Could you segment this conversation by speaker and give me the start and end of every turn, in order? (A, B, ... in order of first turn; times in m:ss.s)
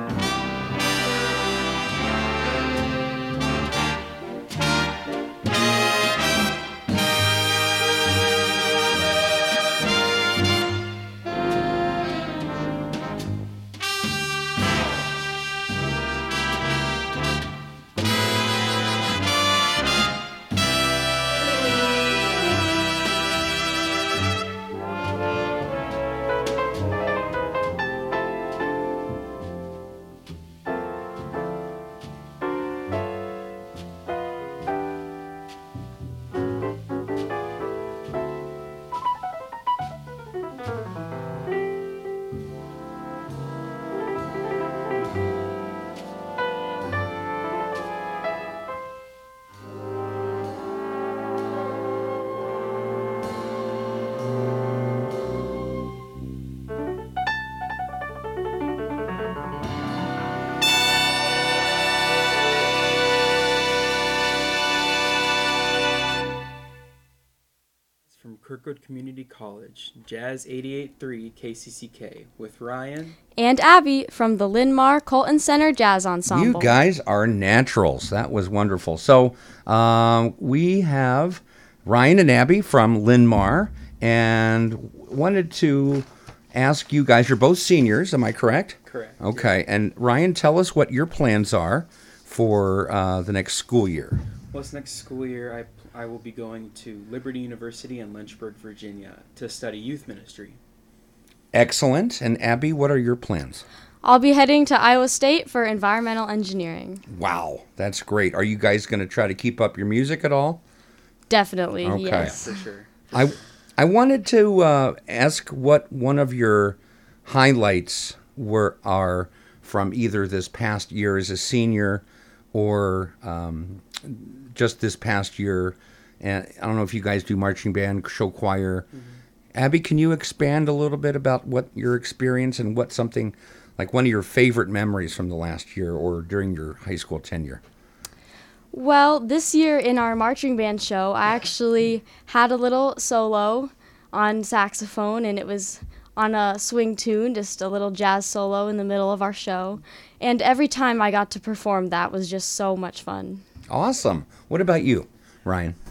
1:08.1-1:13.2 A
1:13.4-1:16.7 B
1:16.3-1:34.2 C
1:28.9-1:29.5 A
1:34.5-1:40.6 A
1:41.5-1:43.6 C
1:44.0-1:47.0 B
1:47.1-1:50.6 C
1:51.3-1:52.6 B
1:51.8-1:52.4 C
1:52.2-1:53.3 A
1:53.1-2:08.9 C
2:09.5-2:17.6 C
2:18.7-2:33.4 B
2:33.7-2:35.8 C